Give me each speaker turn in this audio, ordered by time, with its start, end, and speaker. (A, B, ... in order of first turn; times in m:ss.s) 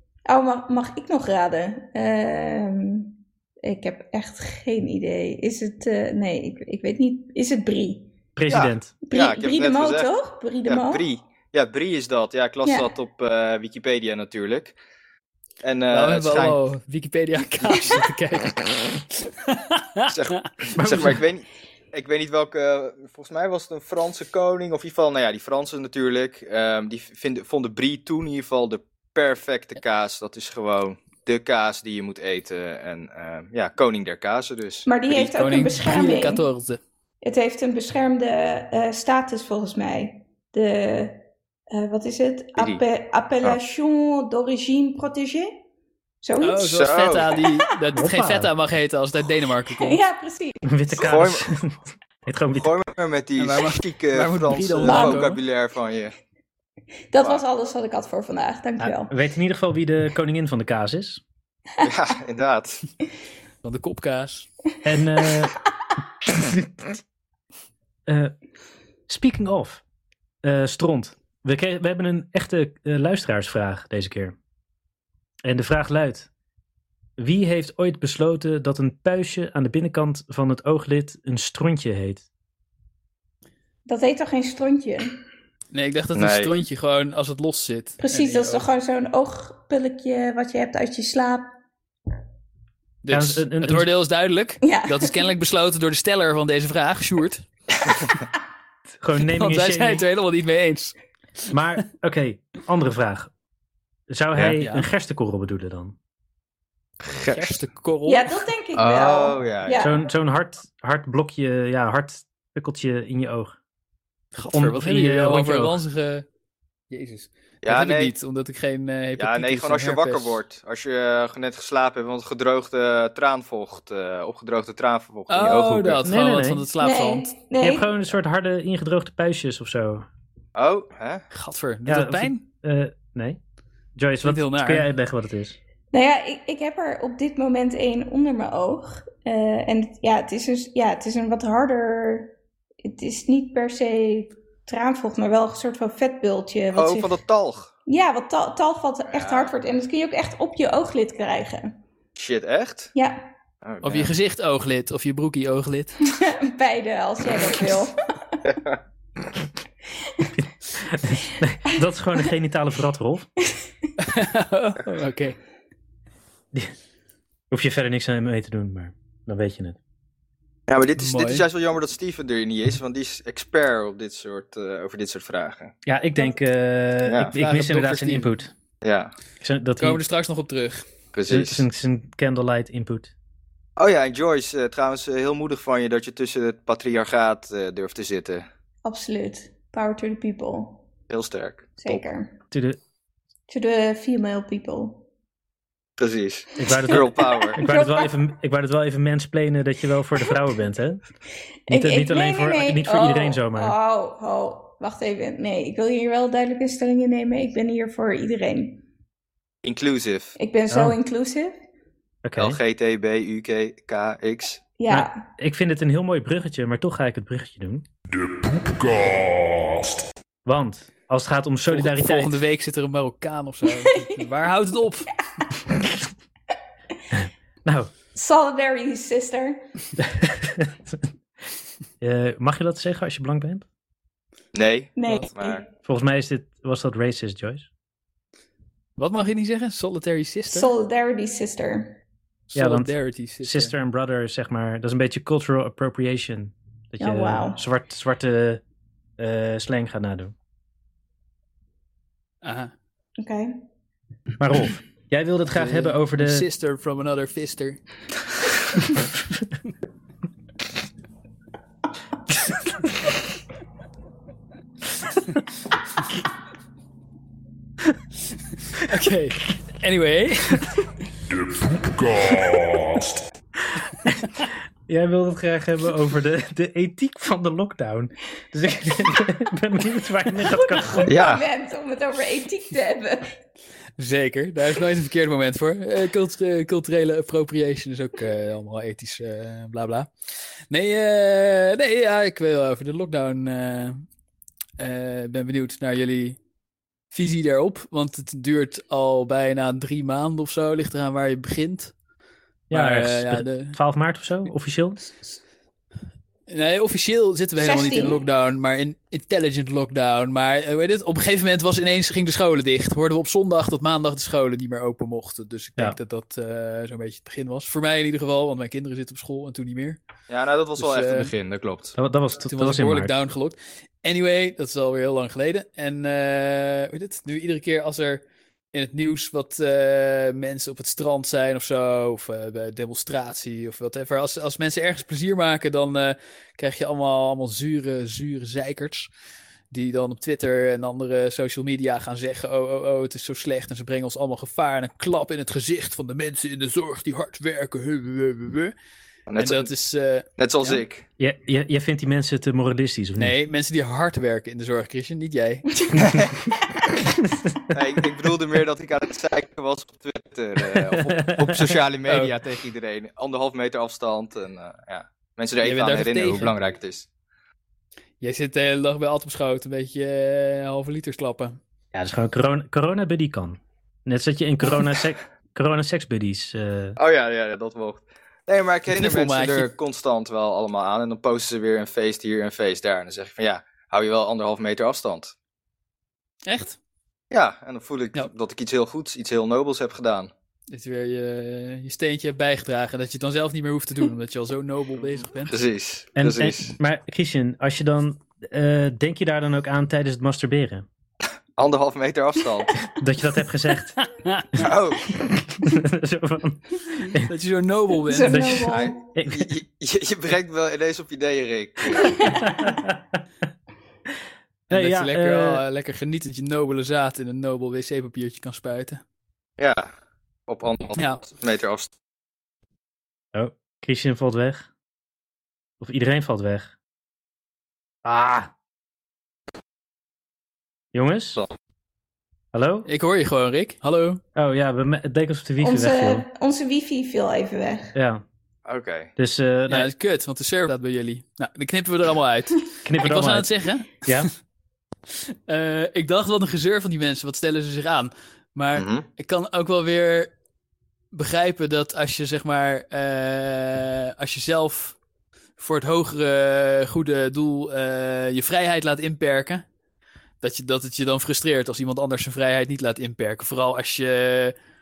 0:00.3-0:08.1 A
0:08.4-0:08.9 B
0:08.5-0:10.1 C
0:09.0-0:11.0 A
0:10.6-0:14.7 C
0:12.6-0:12.9 A
0:15.6-0:16.6 C
0:15.9-0:20.1 D
0:20.1-0:35.3 C
0:20.7-0:21.2 B
0:34.8-0:36.4 A
0:35.4-0:36.8 D
0:37.2-0:45.5 A
0:42.6-0:42.8 C
0:46.2-0:47.6 A
0:46.4-0:50.0 D
0:46.7-0:47.3 C
0:47.9-0:48.5 B
0:49.7-0:50.8 A
0:50.6-0:52.7 B
0:51.0-0:51.5 C
0:52.6-0:56.1 C
0:53.4-0:55.4 D
0:54.8-0:55.2 A
0:57.1-0:59.1 A
0:58.8-1:01.2 B
1:01.8-1:02.8 C
1:03.6-1:04.5 D
1:04.8-1:05.5 B
1:08.1-1:08.3 B
1:09.1-1:09.8 B
1:10.4-1:14.3 B
1:15.4-1:16.3 B
1:17.2-1:22.2 B
1:23.8-1:25.2 A
1:25.7-1:28.6 D
1:26.1-1:26.5 C
1:28.0-1:31.5 A
1:33.0-1:37.4 D
1:33.1-1:33.9 B
1:34.6-1:35.3 A
1:39.0-1:40.0 B
1:39.2-1:41.0 D
1:41.5-1:43.3 B
1:44.1-1:45.9 B
1:44.6-1:44.8 D
1:47.0-1:47.5 C
1:47.2-1:48.4 D
1:48.1-1:50.0 A
1:48.7-1:49.9 C
1:49.8-1:53.6 B
1:54.3-1:56.2 D
1:54.5-1:55.8 B
1:56.9-2:00.4 D
1:57.6-1:58.1 C
1:59.2-2:06.0 C
2:05.3-2:07.3 D
2:06.0-2:06.6 B
2:06.8-2:07.9 A
2:07.6-2:10.0 B
2:10.5-2:11.2 C
2:11.3-2:12.4 D
2:11.9-2:13.4 B
2:14.0-2:15.6 B
2:14.2-2:14.9 D
2:15.9-2:22.3 A
2:22.8-2:27.2 A
2:26.7-2:27.7 C
2:27.8-2:31.8 A
2:29.1-2:29.5 C
2:32.2-2:32.9 C
2:32.9-2:33.2 A
2:33.6-2:34.1 C
2:33.8-2:36.1 D
2:36.1-2:38.4 A
2:38.5-2:38.8 C
2:40.4-2:43.3 B
2:44.0-2:45.4 D
2:47.5-2:49.8 B
2:50.7-2:55.7 C
2:51.0-2:51.4 D
2:55.8-2:58.5 B
2:57.0-2:57.3 C
2:57.3-2:58.4 D
2:58.8-2:59.1 C
2:59.4-3:00.0 B
2:59.8-3:00.9 D
3:01.1-3:01.6 C
3:01.3-3:03.1 B
3:03.8-3:08.4 C
3:08.8-3:10.8 A
3:11.1-3:11.7 C
3:11.8-3:12.3 A
3:12.5-3:12.8 B
3:13.5-3:15.0 A
3:16.0-3:17.6 C
3:16.6-3:21.0 B
3:16.7-3:18.2 A
3:21.7-3:28.8 A
3:21.7-3:23.7 B
3:29.6-3:30.3 C
3:30.4-3:31.5 A
3:30.7-3:31.0 B
3:32.2-3:32.6 B
3:32.4-3:34.6 C
3:34.8-3:35.2 A
3:34.9-3:37.8 B
3:38.1-3:40.0 E
3:40.4-3:42.4 B
3:41.7-3:45.1 D
3:47.1-3:47.9 B
3:48.1-3:49.6 A
3:50.0-3:51.0 B
3:52.0-3:53.6 B
3:54.5-3:55.6 C
3:55.0-3:55.6 A
3:55.8-3:57.6 B
3:59.0-4:00.7 D
4:00.5-4:02.0 A
4:02.5-4:03.7 D
4:02.5-4:02.9 B
4:03.4-4:08.6 B
4:07.0-4:07.6 A
4:09.2-4:10.3 B
4:12.4-4:12.7 D
4:13.2-4:13.6 A
4:14.4-4:16.4 B
4:15.5-4:17.8 D
4:28.7-4:30.9 D
4:31.3-4:33.3 E
4:34.9-4:41.1 B
4:40.5-4:43.3 A
4:41.1-4:41.4 C
4:44.0-4:50.1 D
4:50.7-4:54.0 D
4:54.8-4:56.4 D
4:57.1-5:01.9 D
5:02.7-5:03.8 D
5:02.7-5:05.0 B
5:06.5-5:20.0 D
5:07.6-5:08.2 A
5:20.3-5:22.0 C
5:20.8-5:21.3 D
5:22.0-5:23.1 B
5:22.5-5:39.1 D
5:39.7-5:48.7 D
5:49.3-5:49.7 C
5:49.4-5:50.8 D
5:50.4-5:51.0 C
5:51.2-5:53.3 B
5:53.2-5:55.8 D
5:56.0-5:56.3 C
5:57.7-6:07.1 C
6:01.1-6:01.8 B
6:02.1-6:02.3 D
6:05.6-6:06.5 D
6:08.2-6:11.6 D
6:11.9-6:17.0 B
6:17.0-6:25.3 C
6:18.9-6:19.7 D
6:26.4-6:26.8 D
6:27.3-6:30.3 C
6:30.7-6:35.6 D
6:35.5-6:36.7 C
6:36.2-6:40.8 B
6:41.6-6:42.7 C
6:42.9-6:44.0 B
6:44.0-6:44.7 D
6:44.6-6:45.3 C
6:45.3-6:47.3 B
6:47.1-6:48.5 D
6:48.1-6:49.0 A
6:48.2-6:49.5 B
6:48.6-6:52.3 C
6:52.0-6:52.7 A
6:52.4-6:53.2 B
6:54.7-6:55.6 B
6:54.7-6:59.0 D
6:59.6-6:59.9 C
7:00.5-7:01.9 C
7:01.0-7:01.2 D
7:03.3-7:04.7 B
7:05.8-7:06.7 B
7:08.0-7:08.5 B
7:10.9-7:11.4 B
7:12.5-7:12.9 B
7:12.8-7:14.2 D
7:14.4-7:16.2 B
7:15.6-7:17.9 A
7:17.9-7:18.2 B
7:18.6-7:19.1 C
7:19.2-7:19.9 B
7:19.7-7:24.3 D
7:22.8-7:24.3 B
7:25.5-7:30.3 D
7:28.7-7:29.0 C
7:31.1-7:35.0 D
7:35.6-7:39.6 D
7:40.4-7:44.5 D